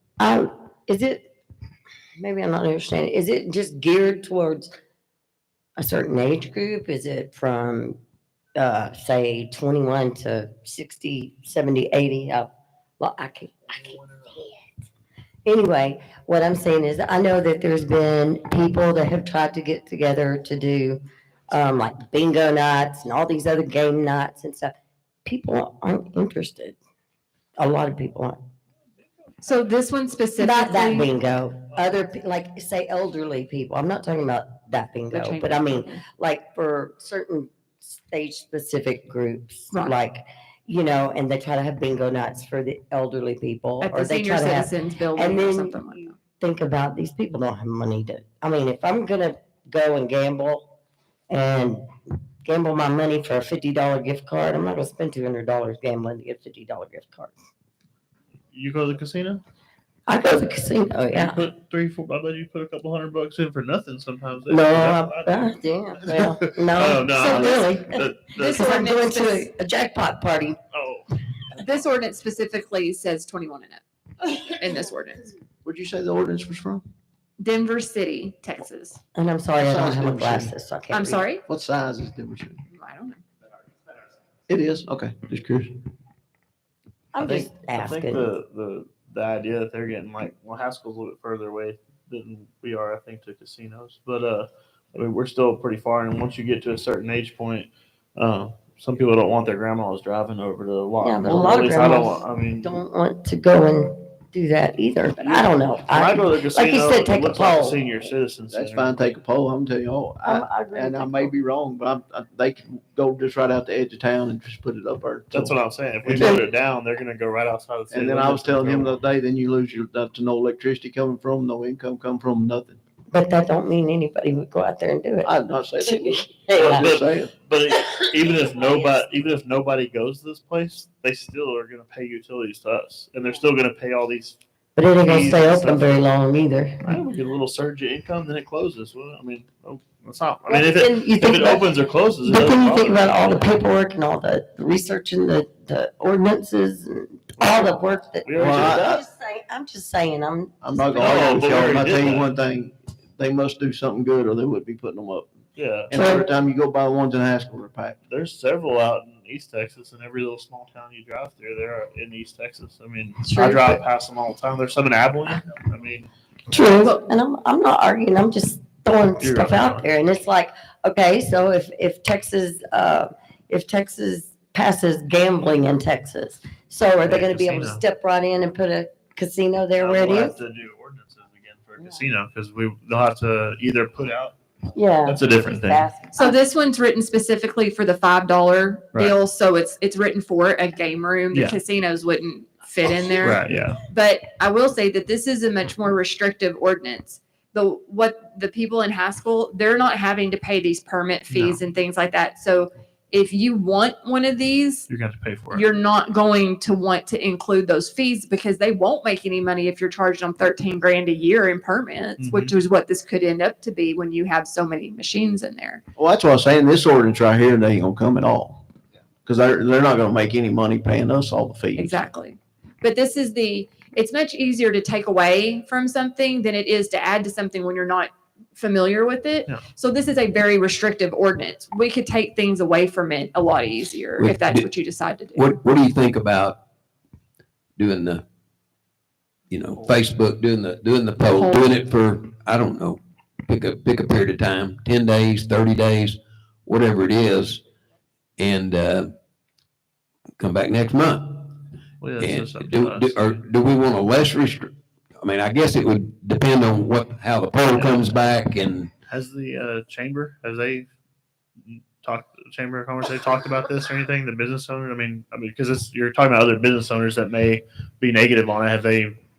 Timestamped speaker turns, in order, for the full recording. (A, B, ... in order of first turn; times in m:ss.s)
0:00.2-0:01.3 A
0:02.2-0:04.7 A
0:05.8-0:08.0 A
0:08.6-0:14.7 A
0:15.5-0:24.7 A
0:25.2-0:26.8 A
0:27.6-0:28.4 A
0:29.4-0:31.1 B
0:30.4-0:50.7 A
0:35.1-0:36.0 B
0:43.8-0:46.2 B
0:51.3-0:51.8 A
0:52.4-0:57.5 A
0:58.5-0:59.4 C
1:00.1-1:01.4 A
1:01.1-1:08.6 C
1:04.5-1:10.6 A
1:07.1-1:07.7 B
1:08.3-1:09.5 B
1:10.7-1:11.1 C
1:11.6-1:13.8 B
1:14.3-1:15.3 B
1:15.6-1:16.8 D
1:17.4-1:19.0 B
1:19.1-1:21.3 A
1:19.6-1:20.5 D
1:20.9-1:21.4 B
1:21.5-1:22.6 D
1:22.7-1:23.2 B
1:24.5-1:25.7 D
1:27.1-1:28.3 A
1:27.2-1:42.8 C
1:41.0-1:47.8 A
1:45.2-1:49.2 C
1:48.5-1:55.6 D
1:50.2-1:51.3 A
1:55.3-1:59.0 C
1:56.1-1:56.4 D
1:56.1-1:56.4 A
1:57.9-2:02.8 D
2:03.1-2:06.9 A
2:05.2-2:07.3 D
2:06.6-2:14.4 C
2:08.6-2:09.0 A
2:14.8-2:17.0 A
2:15.0-2:16.0 C
2:16.8-2:23.5 C
2:20.5-2:21.7 A
2:22.2-2:31.8 A
2:28.2-2:28.9 C
2:28.4-2:29.0 D
2:30.6-2:35.3 D
2:31.0-2:32.3 C
2:35.6-2:36.0 C
2:35.9-2:38.0 D
2:35.9-2:36.3 A
2:38.1-2:46.1 C
2:43.2-2:43.8 A
2:46.5-3:00.4 A
2:46.8-2:47.1 B
2:49.2-2:49.8 C
2:57.1-2:57.8 C
2:59.8-3:04.4 C
3:01.8-3:02.0 A
3:04.7-3:06.4 A
3:05.0-3:05.9 C
3:06.1-3:24.9 B
3:11.3-3:11.6 C
3:13.2-3:13.8 C
3:21.3-3:21.6 C
3:24.9-3:25.6 C
3:25.5-3:35.8 B
3:32.2-3:32.5 C
3:36.0-3:38.6 D
3:39.2-3:42.0 D
3:41.8-3:55.5 B
3:54.2-3:54.7 E
3:55.3-3:56.6 E
3:57.8-3:58.2 E
3:59.5-4:07.6 E
4:01.3-4:01.7 B
4:08.4-4:09.1 E
4:10.4-4:11.6 E
4:12.0-4:13.4 C
4:12.2-4:18.9 E
4:17.7-4:18.0 C
4:19.1-4:20.9 C
4:21.6-4:29.2 C